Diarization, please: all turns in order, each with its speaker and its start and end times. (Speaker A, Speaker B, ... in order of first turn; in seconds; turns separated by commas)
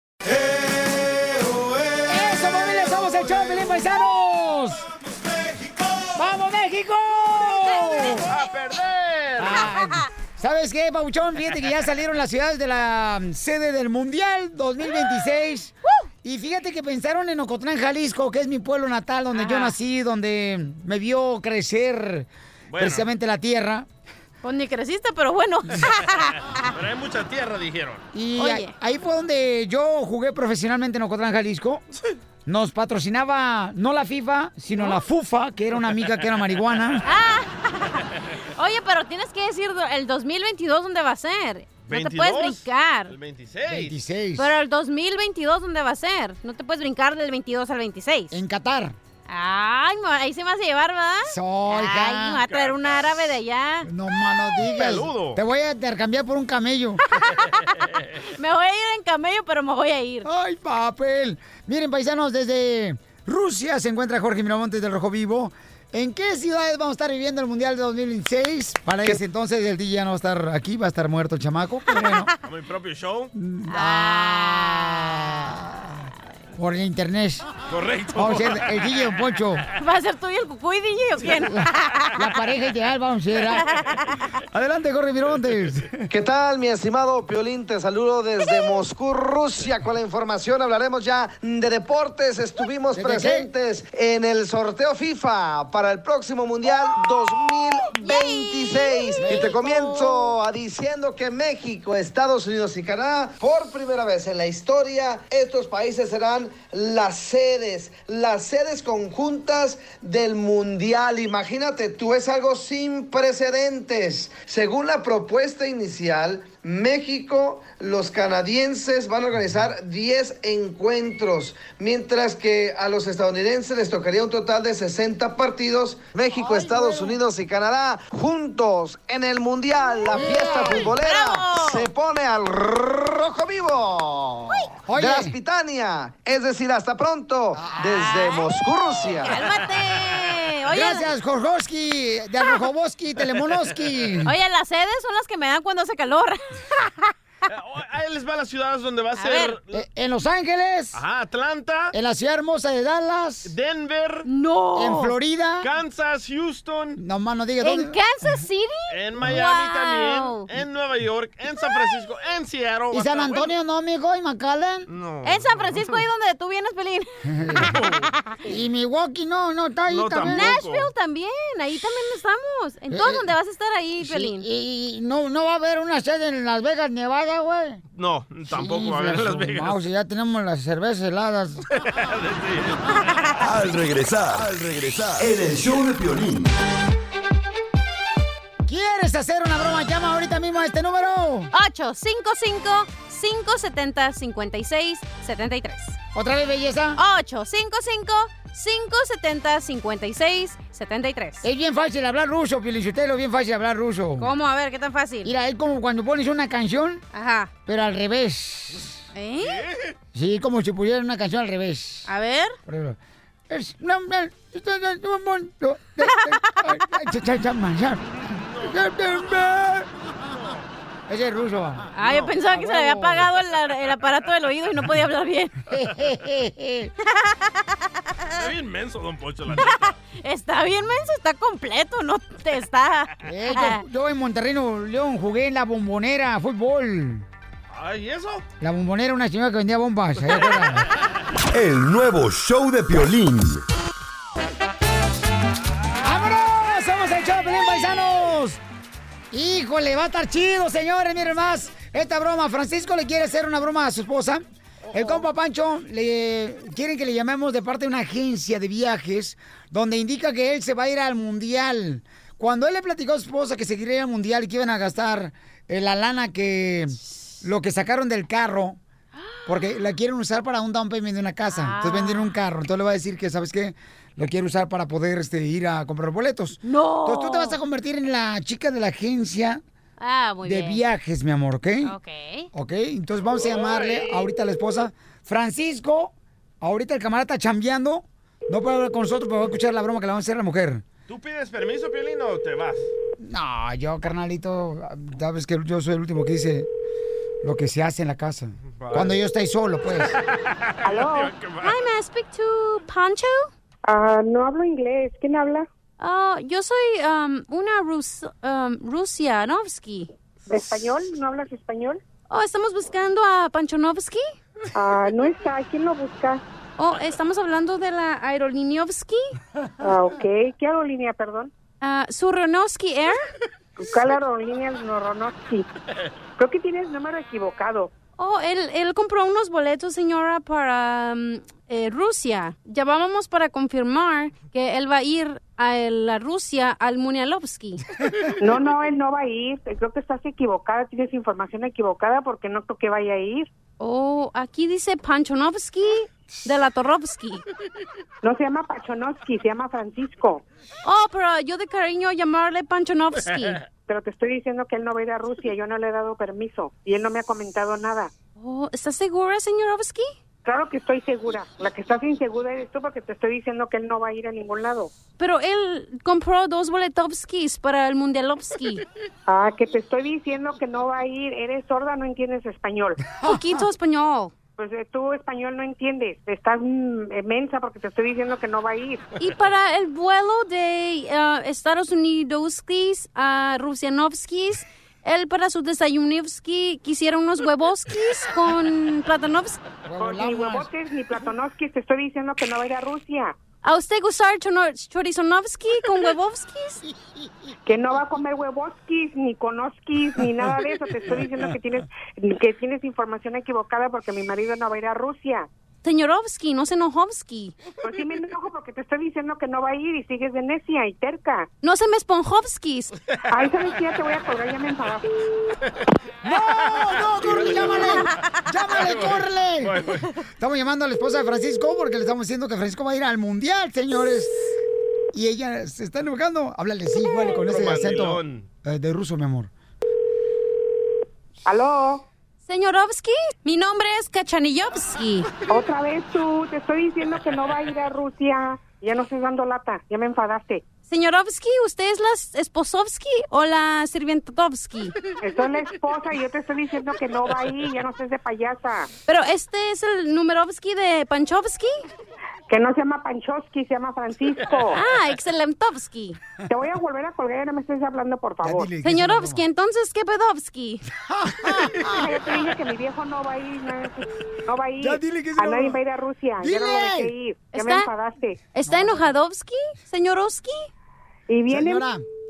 Speaker A: 2.1-4.8, Speaker B: 3.1-3.6, Speaker A: 6.2-8.3, Speaker B: 8.2-9.7, Speaker A: 9.4-23.9, Speaker C: 19.3-19.8, Speaker B: 22.7-23.1, Speaker C: 24.4-26.8, Speaker B: 26.7-28.1, Speaker A: 28.1-31.8, Speaker C: 28.4-28.7, Speaker A: 32.5-37.0, Speaker C: 37.0-38.0, Speaker C: 38.6-43.1, Speaker B: 41.9-43.9, Speaker A: 43.7-44.5, Speaker C: 44.4-48.4, Speaker A: 48.3-49.0, Speaker C: 49.3-53.9, Speaker A: 51.3-52.5, Speaker B: 52.5-53.1, Speaker A: 53.9-57.0, Speaker B: 54.6-55.4, Speaker C: 57.1-57.7, Speaker C: 58.3-60.3, Speaker A: 60.2-72.3, Speaker B: 72.5-73.3, Speaker A: 73.3-77.5, Speaker C: 73.7-74.7, Speaker B: 77.7-78.7, Speaker A: 78.2-79.6, Speaker C: 79.8-82.3, Speaker A: 82.2-83.7, Speaker C: 83.7-84.0, Speaker A: 84.5-86.0, Speaker D: 86.1-139.4, Speaker A: 93.0-93.5, Speaker C: 97.9-100.3, Speaker A: 99.2-99.5, Speaker A: 126.3-127.1, Speaker A: 130.1-130.9, Speaker C: 130.4-131.9, Speaker A: 134.9-135.3, Speaker A: 137.6-138.4, Speaker B: 139.0-140.3, Speaker C: 139.2-141.1, Speaker A: 140.7-144.3, Speaker C: 144.2-147.1, Speaker B: 147.5-149.8, Speaker C: 149.2-149.6, Speaker A: 149.7-151.0, Speaker B: 150.9-151.9, Speaker A: 151.9-153.5, Speaker B: 153.4-154.3, Speaker C: 154.3-155.2, Speaker A: 154.8-155.7, Speaker B: 155.6-157.0, Speaker A: 157.0-158.0, Speaker C: 157.6-160.5, Speaker B: 158.9-163.5, Speaker C: 161.5-162.0, Speaker A: 162.9-164.9, Speaker B: 164.9-166.0, Speaker C: 165.2-167.1, Speaker A: 167.3-167.8, Speaker B: 167.6-168.1, Speaker A: 168.4-170.5, Speaker B: 169.9-170.9, Speaker C: 170.2-174.5, Speaker A: 172.9-173.3, Speaker A: 174.0-177.8, Speaker B: 177.9-179.8, Speaker A: 178.5-181.6, Speaker B: 181.8-182.9, Speaker E: 183.4-186.5, Speaker A: 188.7-191.5, Speaker C: 191.5-196.0, Speaker A: 196.1-197.0, Speaker C: 197.0-201.5, Speaker A: 201.4-204.3, Speaker C: 204.2-205.3, Speaker A: 205.2-207.1, Speaker C: 207.1-207.5, Speaker A: 207.7-209.0, Speaker C: 209.1-209.6, Speaker B: 209.4-209.9, Speaker A: 210.1-212.1, Speaker C: 212.1-212.6, Speaker A: 212.7-213.0, Speaker A: 213.5-219.9, Speaker B: 218.2-218.8, Speaker B: 220.3-220.6, Speaker A: 221.1-221.9, Speaker C: 221.9-225.6, Speaker B: 222.0-222.3, Speaker A: 222.5-223.3, Speaker A: 225.7-226.9, Speaker C: 227.1-227.6, Speaker B: 228.4-229.9, Speaker C: 230.2-233.8, Speaker A: 233.2-237.3, Speaker B: 237.7-238.4, Speaker A: 238.6-240.9, Speaker E: 241.5-243.6, Speaker A: 246.0-248.6, Speaker A: 249.3-268.8, Speaker B: 254.9-255.2, Speaker C: 269.2-269.7, Speaker A: 269.5-279.6, Speaker C: 271.5-272.4, Speaker C: 276.6-277.6, Speaker C: 280.0-280.8, Speaker A: 280.4-281.9, Speaker C: 281.8-282.5, Speaker A: 282.5-290.8, Speaker B: 283.3-284.2, Speaker B: 291.1-292.9, Speaker A: 293.2-296.7, Speaker A: 297.4-300.2, Speaker B: 298.8-299.2, Speaker B: 300.3-301.8, Speaker F: 300.8-301.3, Speaker C: 301.6-303.5, Speaker F: 303.9-305.7, Speaker C: 306.0-310.1, Speaker F: 310.5-312.0, Speaker C: 312.3-314.2, Speaker F: 314.8-316.4, Speaker C: 316.8-319.3, Speaker F: 319.8-321.5, Speaker C: 321.8-323.2, Speaker F: 323.8-325.7, Speaker F: 326.4-327.9, Speaker C: 328.2-337.8, Speaker F: 338.4-343.5, Speaker C: 343.8-347.4, Speaker F: 348.2-350.4, Speaker C: 350.8-353.6, Speaker F: 353.9-358.1, Speaker C: 358.4-360.1, Speaker F: 360.4-364.9, Speaker C: 365.2-368.8, Speaker F: 369.3-373.0, Speaker C: 373.2-374.3, Speaker F: 374.6-379.1, Speaker C: 379.2-389.6, Speaker A: 389.9-390.7, Speaker F: 390.0-393.4, Speaker C: 393.6-396.8, Speaker F: 397.7-405.5, Speaker C: 405.8-407.5, Speaker F: 407.8-411.5, Speaker C: 411.6-412.9, Speaker F: 413.3-415.0, Speaker A: 416.2-424.3, Speaker B: 416.6-418.1, Speaker B: 418.7-420.0, Speaker A: 425.1-429.5, Speaker B: 427.3-428.5, Speaker F: 431.4-432.1, Speaker C: 432.5-435.3, Speaker F: 435.5-440.7, Speaker C: 440.9-444.9, Speaker F: 445.2-448.9, Speaker C: 449.1-451.7, Speaker F: 452.5-454.8, Speaker C: 454.7-456.2, Speaker F: 456.5-458.7, Speaker A: 458.4-459.4, Speaker C: 458.8-460.8, Speaker A: 461.0-462.1, Speaker F: 461.9-468.4, Speaker A: 464.8-465.8, Speaker A: 466.4-467.1, Speaker C: 467.5-467.9, Speaker C: 468.5-470.7, Speaker A: 468.7-469.0, Speaker F: 471.3-471.8, Speaker A: 471.5-472.0